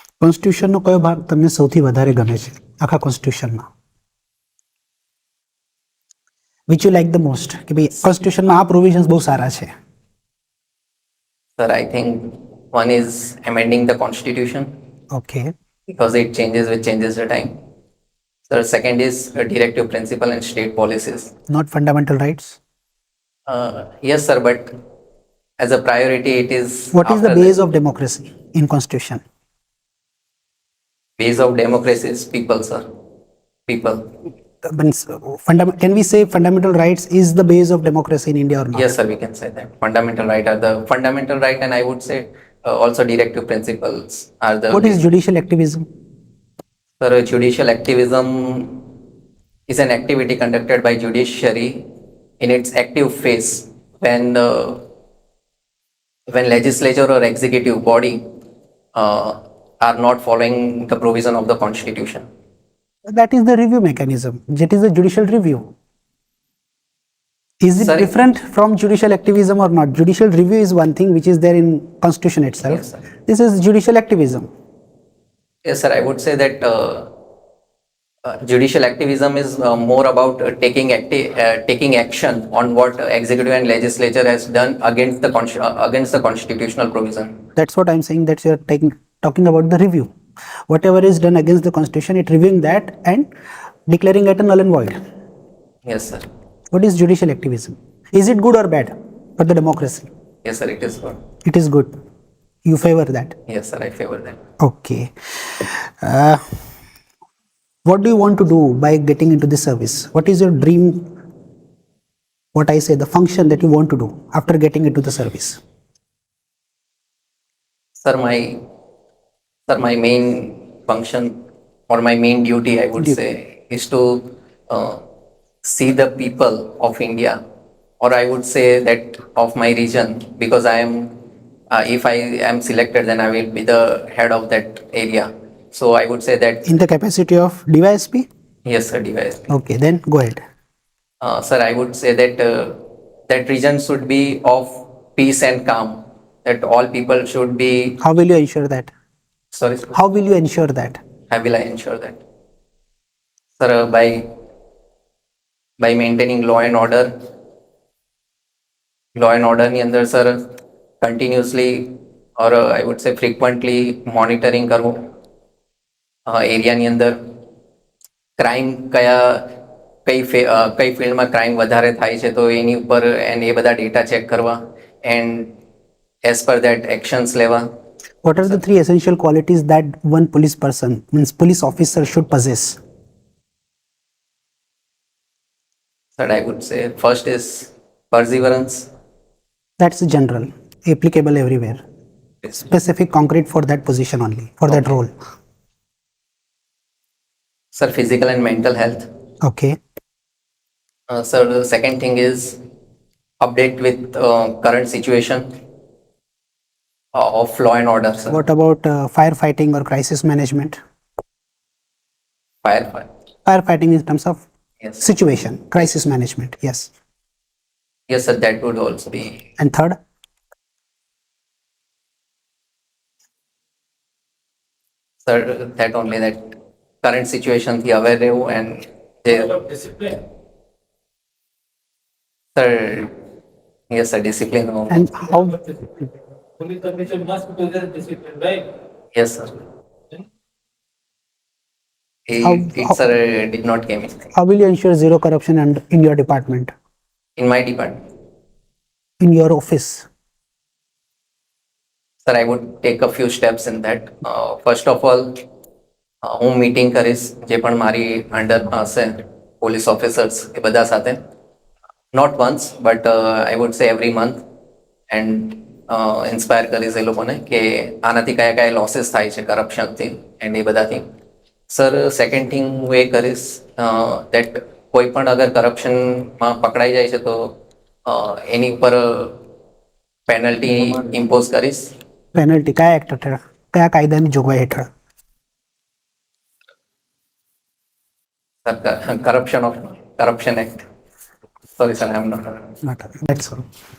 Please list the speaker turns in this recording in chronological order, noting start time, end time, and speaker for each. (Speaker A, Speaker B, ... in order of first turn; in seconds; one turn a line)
Speaker A: 0.2-3.6
Speaker A: 6.7-9.7
Speaker B: 11.6-14.7
Speaker A: 15.1-15.5
Speaker B: 15.9-17.6
Speaker B: 18.5-21.3
Speaker A: 21.5-22.6
Speaker B: 23.5-24.7
Speaker B: 25.6-27.5
Speaker A: 26.9-29.2
Speaker B: 31.2-32.9
Speaker B: 33.7-34.1
Speaker A: 34.6-38.9
Speaker B: 38.7-45.0
Speaker A: 44.7-45.9
Speaker B: 47.0-48.9
Speaker B: 49.7-51.8
Speaker B: 52.4-54.8
Speaker B: 56.3-58.3
Speaker B: 59.0-62.3
Speaker A: 63.1-65.7
Speaker A: 67.6-74.5
Speaker B: 67.8-68.1
Speaker B: 72.7-73.0
Speaker B: 75.7-77.1
Speaker B: 78.2-87.4
Speaker A: 87.6-90.1
Speaker A: 90.7-93.3
Speaker A: 93.9-95.0
Speaker B: 95.9-96.3
Speaker A: 96.7-100.1
Speaker B: 100.4-101.2
Speaker A: 101.5-101.9
Speaker A: 102.7-103.3
Speaker B: 103.5-104.4
Speaker A: 104.6-106.6
Speaker A: 107.8-111.1
Speaker A: 112.5-115.6
Speaker B: 118.0-118.6
Speaker B: 119.7-121.4
Speaker B: 121.9-125.0
Speaker B: 125.6-127.4
Speaker B: 128.0-131.2
Speaker B: 131.7-136.7
Speaker A: 136.7-138.3
Speaker B: 138.7-139.5
Speaker A: 139.5-140.4
Speaker B: 141.2-148.0
Speaker A: 148.0-148.9
Speaker B: 149.5-150.0
Speaker A: 149.9-151.0
Speaker B: 151.3-152.2
Speaker B: 153.6-154.3
Speaker B: 155.8-157.1
Speaker B: 159.2-160.4
Speaker B: 161.0-165.1
Speaker B: 166.3-167.2
Speaker B: 168.4-169.5
Speaker B: 170.1-175.5
Speaker B: 176.2-177.7
Speaker A: 178.2-182.8
Speaker B: 186.2-188.9
Speaker A: 189.8-191.8
Speaker A: 192.6-195.1
Speaker B: 194.7-194.9
Speaker B: 197.8-199.1
Speaker A: 199.4-199.8
Speaker B: 201.1-202.6
Speaker B: 203.4-205.5
Speaker B: 207.2-208.4
Speaker A: 208.3-210.8
Speaker B: 212.6-213.1
Speaker A: 213.5-214.4
Speaker A: 215.0-216.9
Speaker B: 218.1-219.4
Speaker A: 219.6-220.0
Speaker B: 225.2-226.4
Speaker B: 227.0-229.6
Speaker C: 229.4-230.2
Speaker B: 232.6-233.1
Speaker B: 233.9-235.1
Speaker A: 234.9-235.6
Speaker C: 236.6-238.7
Speaker B: 239.2-239.6
Speaker B: 242.3-244.3
Speaker A: 242.4-243.0
Speaker A: 244.3-246.7
Speaker B: 247.4-248.0
Speaker A: 249.2-250.1
Speaker B: 252.2-255.4
Speaker B: 256.2-261.2
Speaker B: 262.1-264.4
Speaker B: 265.1-271.1
Speaker B: 271.7-277.5
Speaker B: 278.1-279.4
Speaker B: 280.3-281.9
Speaker A: 282.4-284.9
Speaker B: 288.6-290.9
Speaker B: 291.8-292.7
Speaker A: 292.8-293.7